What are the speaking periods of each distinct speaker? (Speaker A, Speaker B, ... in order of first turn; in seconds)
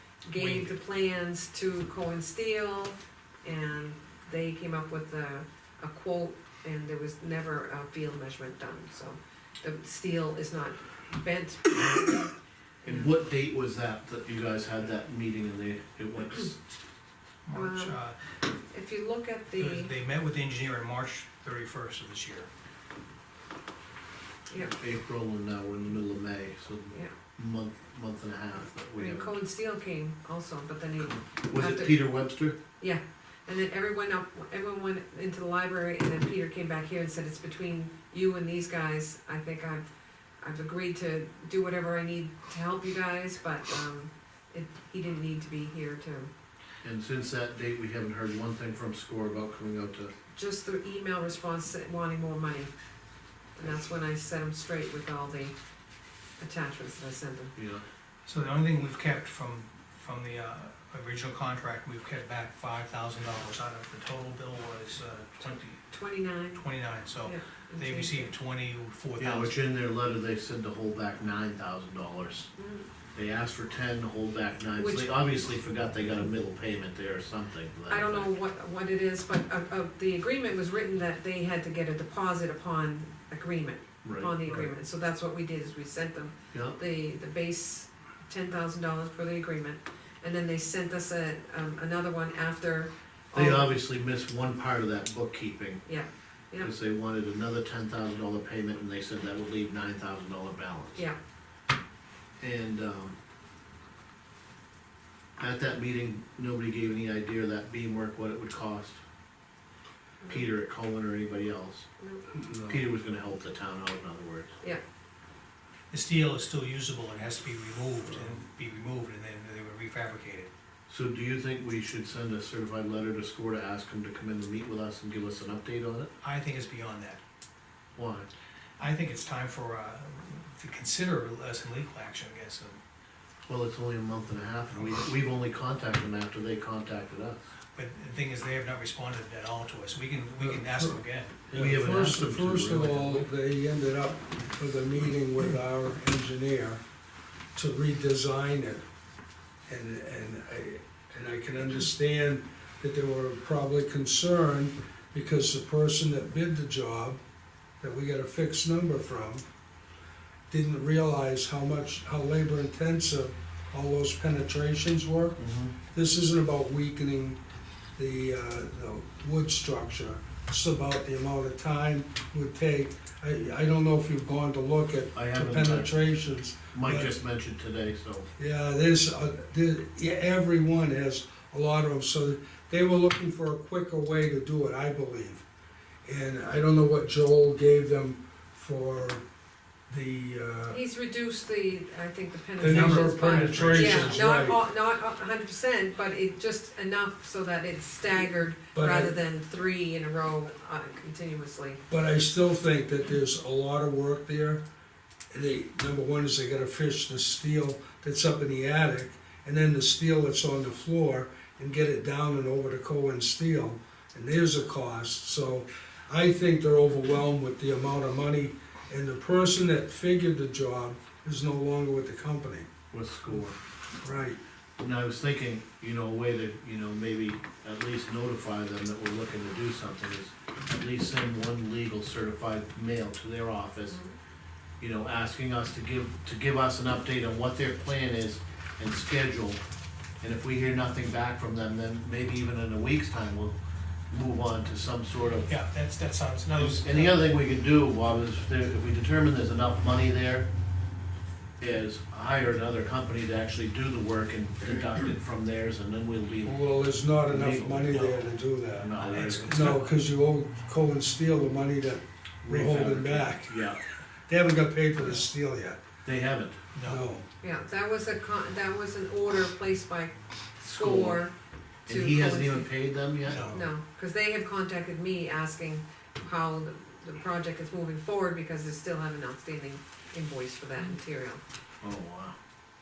Speaker A: 0.2-12.3, 12.8-13.1, 17.5-17.9, 18.7-19.9, 24.5-24.7, 28.9-32.0, 32.8-39.9, 40.4-46.3, 50.3-52.7, 53.5-55.5, 56.4-57.5, 65.9-66.6, 67.2-68.3, 72.5-72.9, 74.8-75.1, 77.9-93.7, 95.8-96.7, 112.0-112.2, 190.7-201.8, 233.9-234.1, 267.4-271.3, 271.9-272.7, 273.5-281.4
Speaker B: 0.3-0.7, 17.4-18.1, 19.6-22.5, 58.2-65.8, 66.5-69.5, 115.9-120.5, 126.2-127.2, 128.8-132.8, 137.7-141.3, 192.6-194.2, 245.5-247.3, 257.9-259.8, 266.7-267.0, 273.2-273.6
Speaker C: 12.8-16.6, 24.7-29.4, 31.4-32.6, 46.8-50.1, 57.5-57.8, 69.2-72.5, 73.1-78.3, 84.0-84.3, 86.5-86.8, 93.3-95.8, 96.6-101.0, 102.4-103.2, 105.4-109.0, 110.3-111.8, 112.7-114.5, 120.9-126.1, 127.9-128.3, 133.5-137.4, 141.5-143.3, 165.4-165.7, 175.1-175.9, 176.7-178.3, 222.9-223.6, 224.8-234.0, 234.8-239.6, 240.2-243.5, 244.1-245.5, 246.5-250.5, 251.6-256.6, 257.3-258.0, 258.8-259.6, 262.4-263.8, 266.0-266.6, 270.7-271.2, 271.9-273.6, 281.8-282.3
Speaker D: 140.4-141.0, 141.5-146.8, 147.5-148.8, 149.7-157.2, 157.8-159.4, 160.5-165.4, 165.9-167.4, 168.0-177.1, 178.4-185.4, 186.0-189.2, 189.9-190.8, 192.6-194.6, 198.7-199.1, 201.9-204.6, 205.3-222.7, 224.0-224.4, 256.4-263.8, 264.3-265.8, 266.8-267.2, 273.3-273.7